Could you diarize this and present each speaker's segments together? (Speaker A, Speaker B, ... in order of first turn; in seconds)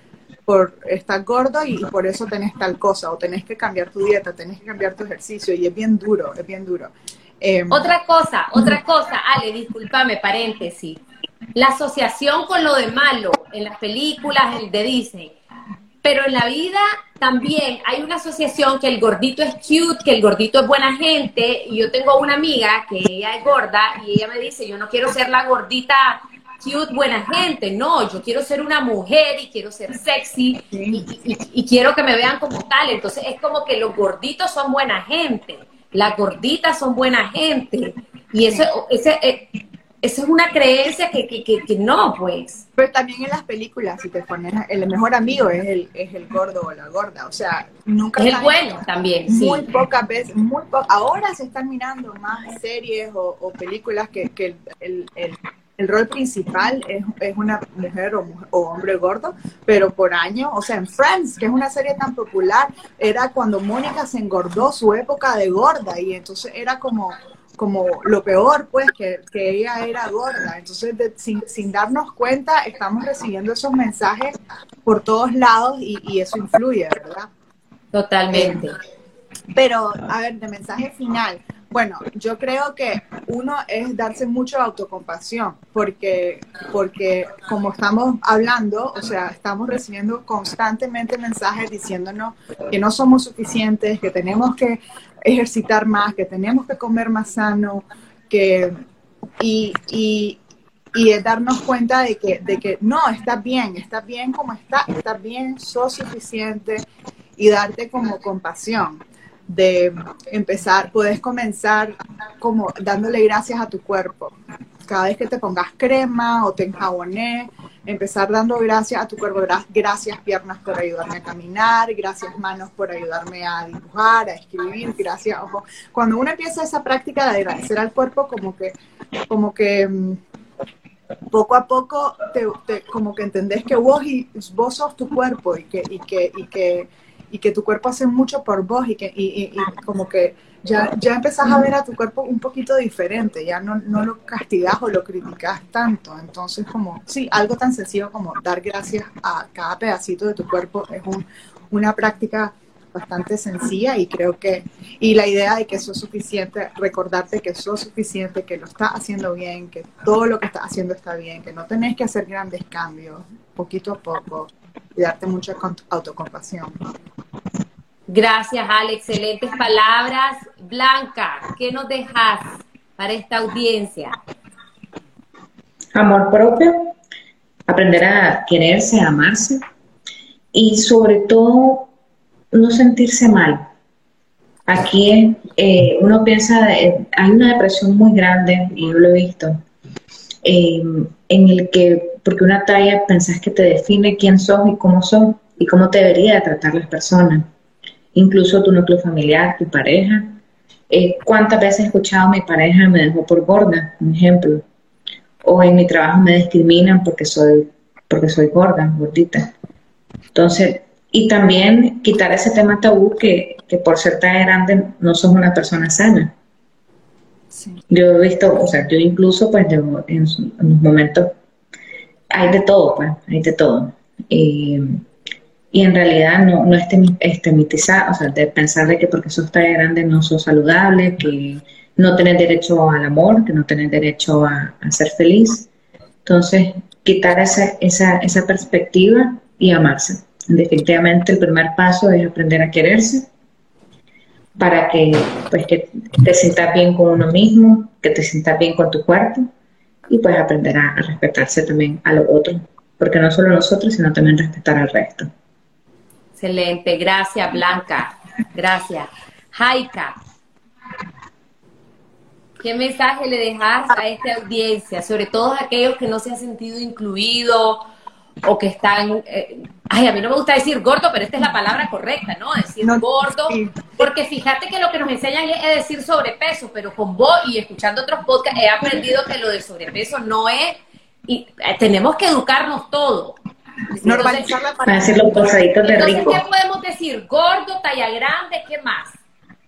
Speaker A: 0.5-7.9, 30.7-31.0, 42.8-77.3, 78.3-78.6, 79.5-98.7, 99.4-100.4, 100.9-106.8, 107.4-114.3, 114.8-128.7, 129.3-130.2, 131.3-166.8, 217.5-217.8, 272.8-274.1, 284.0-285.5
Speaker B: 7.7-11.0, 11.5-15.3, 16.0-39.5, 40.0-42.6, 48.2-49.7, 77.9-78.8, 168.1-174.2, 256.4-260.1, 262.6-267.8, 268.4-283.4, 284.0-284.5, 285.8-289.2
Speaker C: 175.9-176.9, 177.7-179.6, 180.5-181.9, 182.5-183.7, 184.7-189.6, 190.4-197.5, 198.1-200.4, 200.9-204.6, 205.4-209.5, 210.3-216.3, 217.9-221.3, 222.3-225.0, 225.7-235.7, 236.2-243.3, 244.6-249.5, 250.1-255.3, 284.8-286.4